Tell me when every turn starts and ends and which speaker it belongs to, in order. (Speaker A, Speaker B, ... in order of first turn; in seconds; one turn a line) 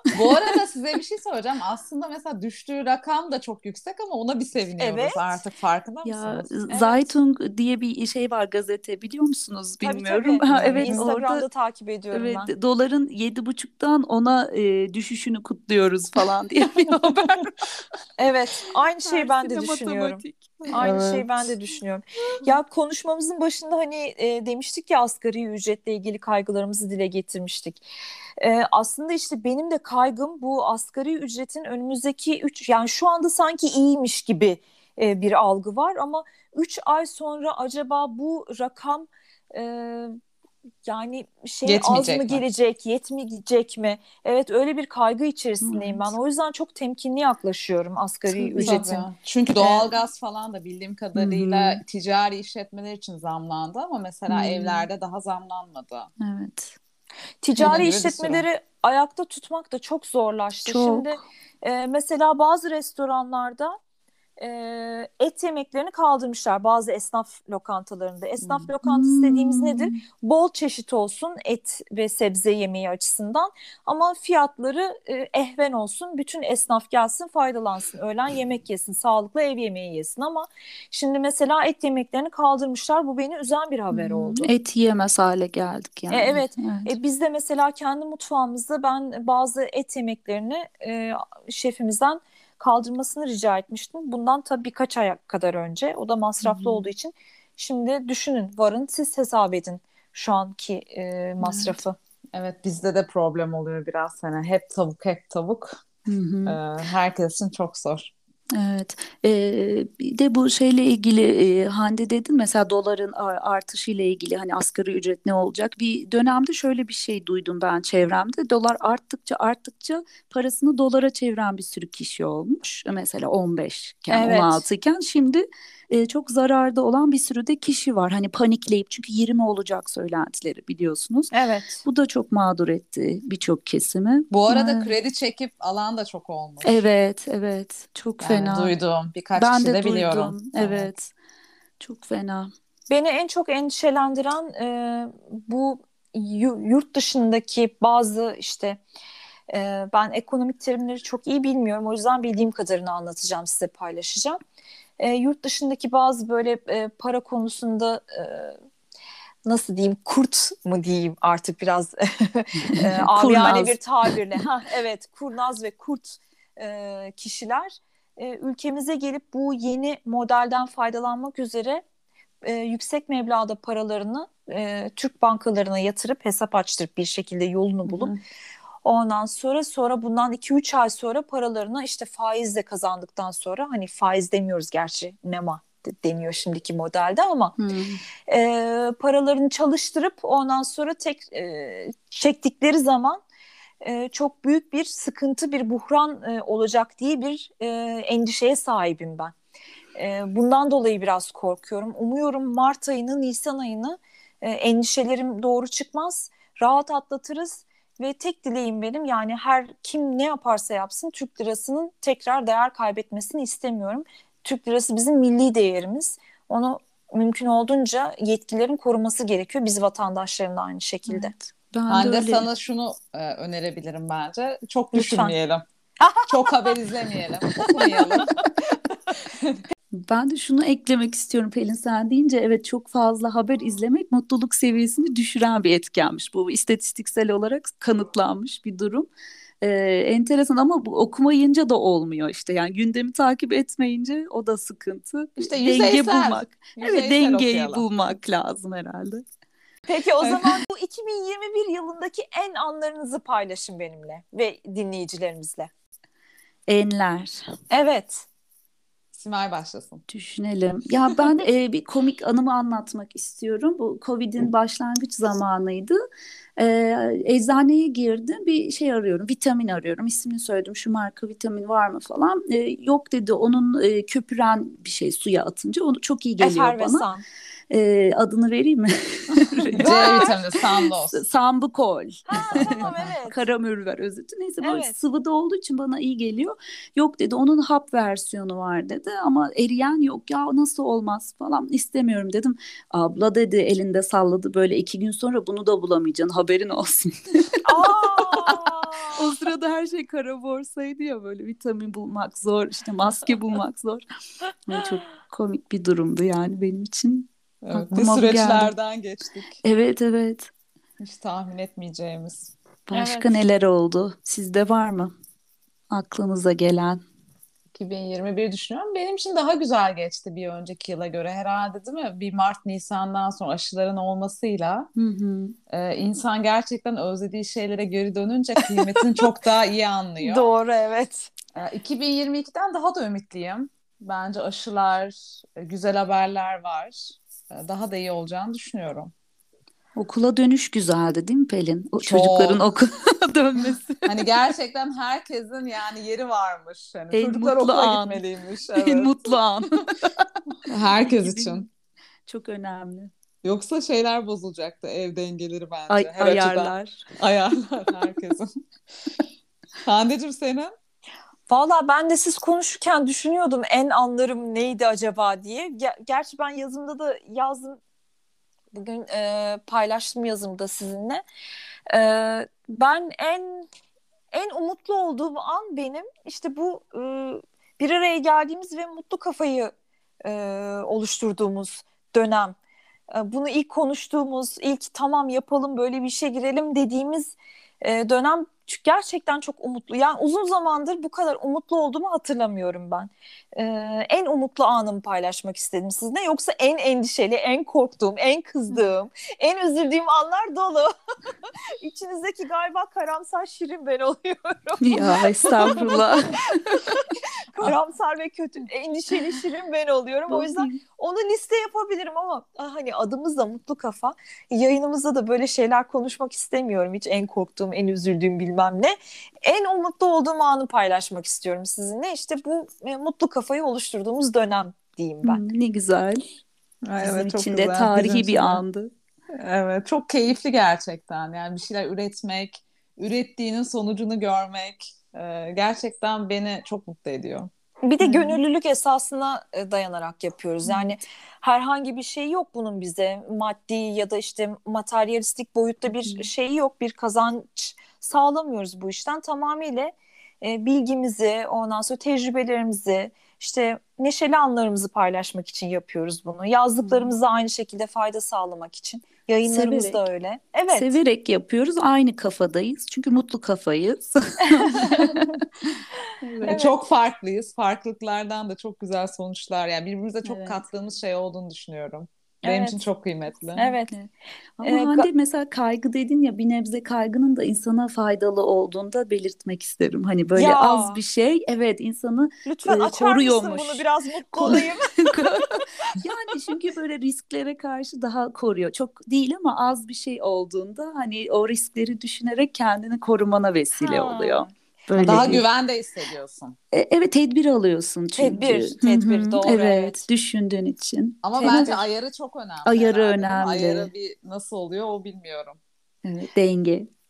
Speaker A: 0.1-6.5
Speaker B: 4.8-5.4
Speaker C: 6.0-11.4
Speaker B: 6.5-7.1
Speaker B: 9.8-12.5
Speaker A: 10.5-11.1
Speaker C: 12.1-17.5
Speaker B: 18.2-27.8
Speaker C: 19.0-21.4
Speaker B: 28.4-40.2
Speaker B: 40.8-49.0
Speaker A: 41.6-42.4
Speaker C: 45.6-46.1
Speaker C: 48.3-48.8
Speaker A: 48.6-56.1
Speaker B: 49.6-49.9
Speaker C: 51.1-51.8
Speaker C: 54.3-54.9
Speaker C: 56.2-56.8
Speaker B: 57.4-63.8
Speaker A: 57.6-58.4
Speaker C: 60.6-61.2
Speaker B: 64.4-84.5
Speaker C: 68.4-70.0
Speaker C: 83.9-86.9
Speaker B: 86.1-102.0
Speaker C: 96.4-96.9
Speaker C: 101.4-101.8
Speaker A: 102.3-105.8
Speaker C: 106.1-106.6
Speaker A: 106.5-108.1
Speaker C: 108.5-131.3
Speaker B: 124.1-124.6
Speaker B: 131.3-131.8
Speaker C: 131.8-134.9
Speaker A: 134.3-136.9
Speaker C: 136.6-138.7
Speaker A: 138.2-140.9
Speaker C: 139.3-141.1
Speaker C: 141.8-142.5
Speaker B: 142.9-148.8
Speaker B: 149.5-154.4
Speaker B: 155.0-158.6
Speaker B: 159.4-171.8
Speaker C: 162.7-164.1
Speaker B: 172.4-178.1
Speaker C: 177.9-178.1
Speaker B: 178.8-187.6
Speaker C: 187.6-188.0
Speaker B: 188.3-193.2
Speaker B: 193.8-199.3
Speaker B: 199.9-221.3
Speaker C: 221.1-222.5
Speaker A: 221.9-225.6
Speaker B: 224.9-225.3
Speaker B: 226.0-226.8
Speaker A: 226.3-228.3
Speaker B: 227.5-228.3
Speaker A: 229.3-229.6
Speaker C: 229.9-239.1
Speaker C: 239.6-249.2
Speaker A: 245.4-247.8
Speaker B: 249.9-255.7
Speaker A: 250.2-250.6
Speaker C: 256.7-257.4
Speaker B: 257.7-258.2
Speaker A: 259.1-260.0
Speaker C: 260.1-266.0
Speaker C: 266.6-277.1
Speaker B: 276.4-277.2
Speaker C: 277.7-280.4
Speaker B: 279.8-280.3
Speaker A: 279.8-281.2
Speaker C: 281.0-304.0
Speaker B: 282.3-283.5
Speaker A: 282.5-283.1
Speaker B: 284.6-284.9
Speaker B: 297.6-299.2
Speaker C: 304.6-308.7
Speaker A: 307.6-309.6
Speaker C: 309.6-310.5
Speaker A: 311.0-312.5
Speaker C: 312.9-315.1
Speaker B: 312.9-313.4
Speaker C: 315.9-317.0
Speaker A: 317.7-324.9
Speaker C: 324.9-325.6
Speaker A: 325.7-330.5
Speaker B: 330.2-331.3
Speaker A: 331.5-339.1
Speaker C: 339.9-344.1
Speaker A: 342.0-342.6
Speaker A: 344.1-349.1
Speaker C: 347.1-348.2
Speaker C: 348.7-351.7
Speaker A: 350.7-351.6
Speaker C: 352.3-353.1
Speaker A: 353.4-358.5
Speaker C: 355.9-357.0
Speaker A: 359.8-360.7
Speaker B: 361.5-367.8
Speaker B: 368.7-371.2
Speaker B: 371.9-373.7
Speaker B: 374.3-379.7
Speaker B: 380.2-382.6
Speaker B: 383.1-400.9
Speaker B: 401.8-406.1
Speaker C: 404.8-406.9
Speaker B: 406.7-425.4
Speaker C: 410.3-410.8
Speaker C: 425.2-426.2
Speaker A: 426.8-428.6
Speaker C: 427.0-428.9
Speaker A: 429.4-437.5
Speaker B: 437.8-460.9
Speaker C: 438.0-438.4
Speaker C: 440.6-440.9
Speaker C: 445.9-446.3
Speaker C: 456.8-457.1
Speaker C: 459.5-460.0
Speaker C: 460.7-465.4
Speaker B: 464.5-465.3
Speaker C: 466.2-466.6
Speaker B: 466.4-466.8
Speaker A: 466.4-473.6
Speaker C: 470.2-470.6
Speaker B: 472.4-472.8
Speaker C: 473.6-495.4
Speaker B: 473.6-473.9
Speaker B: 474.6-475.1
Speaker B: 480.4-481.0
Speaker B: 482.4-485.1
Speaker B: 493.8-494.5
Speaker A: 495.0-496.6
Speaker C: 496.7-501.7
Speaker B: 498.1-500.0
Speaker A: 501.2-505.6
Speaker B: 501.4-501.8
Speaker C: 502.6-503.9
Speaker C: 506.0-506.9